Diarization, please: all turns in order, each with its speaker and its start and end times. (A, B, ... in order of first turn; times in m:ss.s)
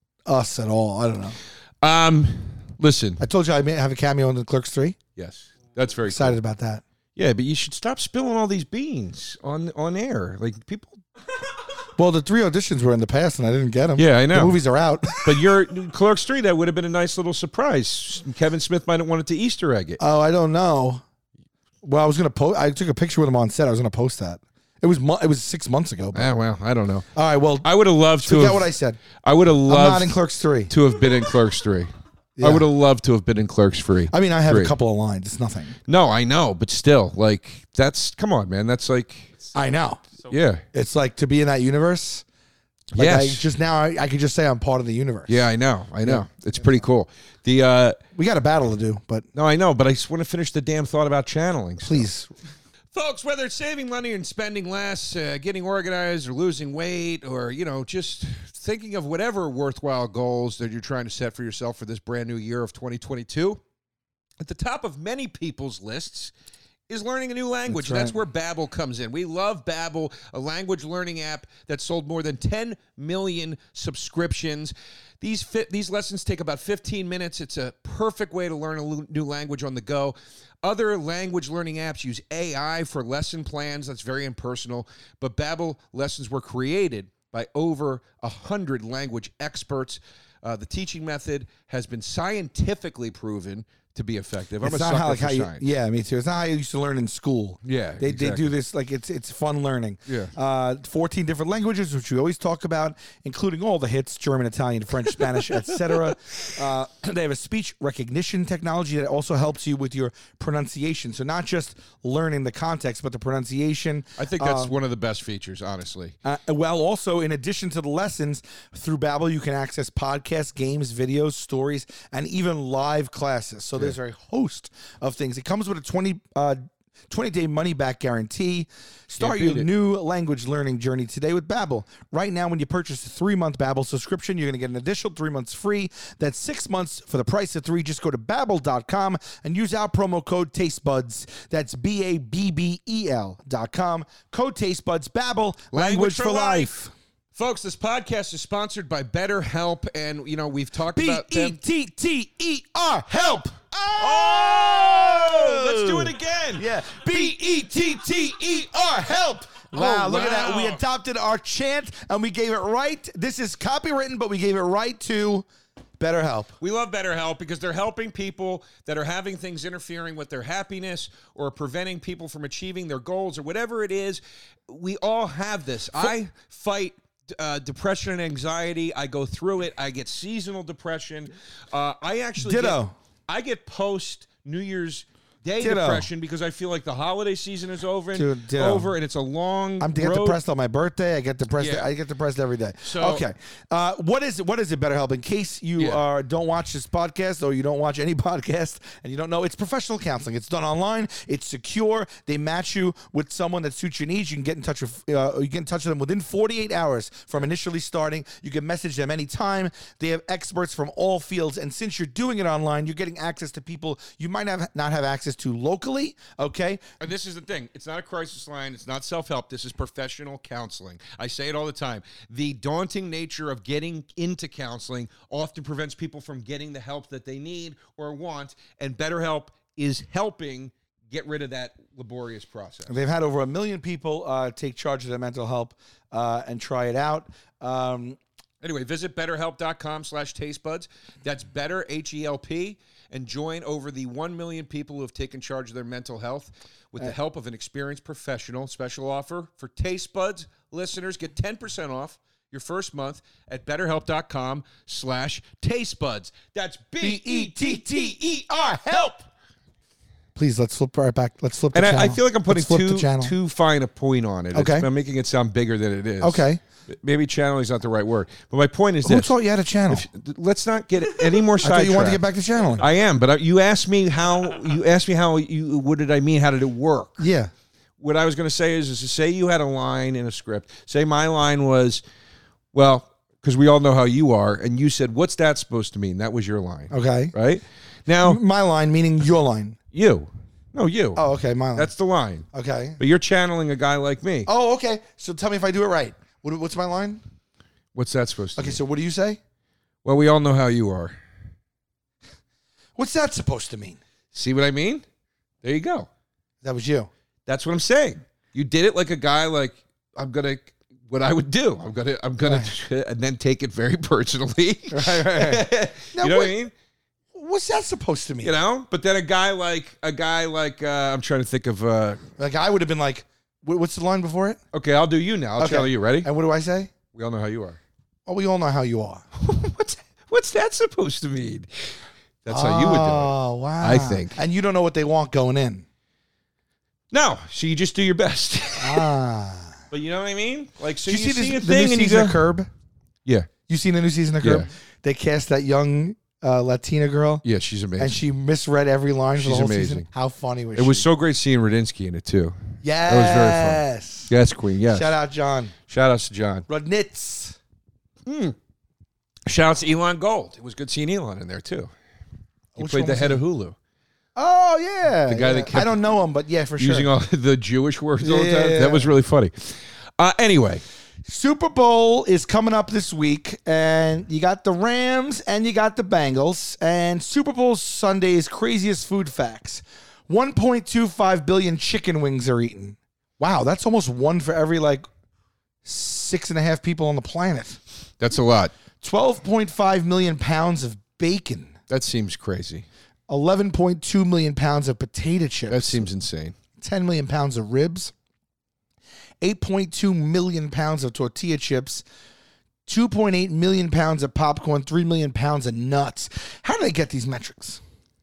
0:00.2-0:01.4 A
0:01.8-0:03.2 B
0:03.2-0:05.0 A
0:05.2-0:06.4 B
0:06.1-0:06.8 A
0:07.2-0:11.0 B
0:12.0-0:15.4 A
0:14.0-0:14.6 B
0:15.2-0:20.0 B
0:20.0-0:21.0 A
0:21.8-0:26.3 A
0:26.1-0:27.1 B
0:27.1-0:27.7 A
0:27.6-0:30.2 B
0:28.2-0:29.0 A
0:29.7-0:30.7 A
0:30.7-0:34.7 B
0:32.4-0:32.6 A
0:34.1-0:35.7 A
0:35.9-0:39.3 B
0:39.5-0:40.0 A
0:40.3-0:40.6 B
0:40.7-0:42.2 A
0:42.9-0:43.5 B
0:42.9-0:45.4 A
0:45.3-0:48.0 B
0:46.0-0:46.8 A
0:48.1-0:49.2 A
0:49.3-0:52.1 B
0:51.8-0:52.3 A
0:52.9-1:03.6 B
1:04.4-1:06.3 B
1:06.9-1:35.7 B
1:07.7-1:08.2 A
1:34.6-1:54.7 A
1:37.6-1:38.5 B
1:40.1-1:40.3 B
1:54.2-1:56.2 B
1:56.2-2:26.9 A
2:09.2-2:09.7 B
2:25.7-2:26.8 B
2:27.3-2:31.6 B
2:30.9-2:45.4 A
2:34.0-2:38.7 B
2:39.6-2:40.8 B
2:46.0-2:46.5 A
2:46.6-3:10.4 B
3:02.4-3:02.9 A
3:05.6-3:06.1 A
3:08.1-3:08.9 A
3:09.8-3:36.8 A
3:11.6-3:11.9 B
3:12.8-3:13.2 B
3:37.0-3:53.0 B
3:52.9-3:58.2 A
3:58.6-4:19.2 B
4:17.0-4:19.1 A
4:20.4-4:23.3 A
4:21.7-4:29.3 B
4:24.5-4:24.9 A
4:26.2-4:26.6 A
4:29.0-4:30.1 A
4:29.9-4:32.2 B
4:31.6-4:32.8 A
4:32.8-4:37.3 B
4:37.2-4:37.5 A
4:38.0-4:42.0 B
4:42.7-4:48.4 B
4:46.9-4:47.3 A
4:48.2-4:49.8 A
4:49.9-4:51.2 B
4:51.2-4:51.9 A
4:51.7-4:52.4 B
4:52.5-4:53.0 A
4:53.0-4:54.5 B
4:54.5-4:57.2 A
4:57.9-4:58.8 B
4:58.6-4:59.4 A
5:00.0-5:01.2 B
5:03.0-5:04.0 A
5:04.3-5:05.0 B
5:05.6-5:06.1 B
5:06.6-5:07.1 A
5:07.4-5:16.7 B
5:12.4-5:12.7 A
5:14.9-5:16.5 A
5:17.3-5:18.5 A
5:18.4-5:22.2 B
5:22.4-5:24.6 A
5:24.7-5:26.3 B
5:25.6-5:26.9 A
5:27.1-5:27.8 B
5:28.2-5:29.2 A
5:29.4-5:31.9 B
5:32.4-5:34.4 B
5:32.5-5:35.8 A
5:37.1-5:39.1 B
5:38.8-5:39.8 A
5:39.9-5:42.5 B
5:41.0-5:42.7 A
5:43.2-5:43.5 B
5:43.7-5:47.4 A
5:44.4-5:44.7 B
5:47.4-5:48.2 B
5:48.0-5:51.0 A
5:49.4-5:50.0 B
5:50.8-5:55.1 B
5:52.8-5:54.3 A
5:54.9-5:55.7 A
5:55.9-5:56.6 B
5:56.7-5:57.6 A
5:58.2-5:58.6 B
5:59.4-6:01.9 B
6:02.8-6:03.4 A
6:02.8-6:03.8 B
6:04.4-6:07.1 A
6:05.3-6:06.0 B
6:06.8-6:10.8 B
6:08.2-6:09.1 A
6:11.2-6:25.0 A
6:25.8-6:27.8 A
6:28.2-6:28.7 B
6:29.0-6:31.7 A
6:31.9-6:32.9 B
6:33.3-6:36.0 A
6:35.7-6:36.6 B
6:36.8-6:38.1 A
6:39.4-6:42.0 A
6:42.9-6:47.8 A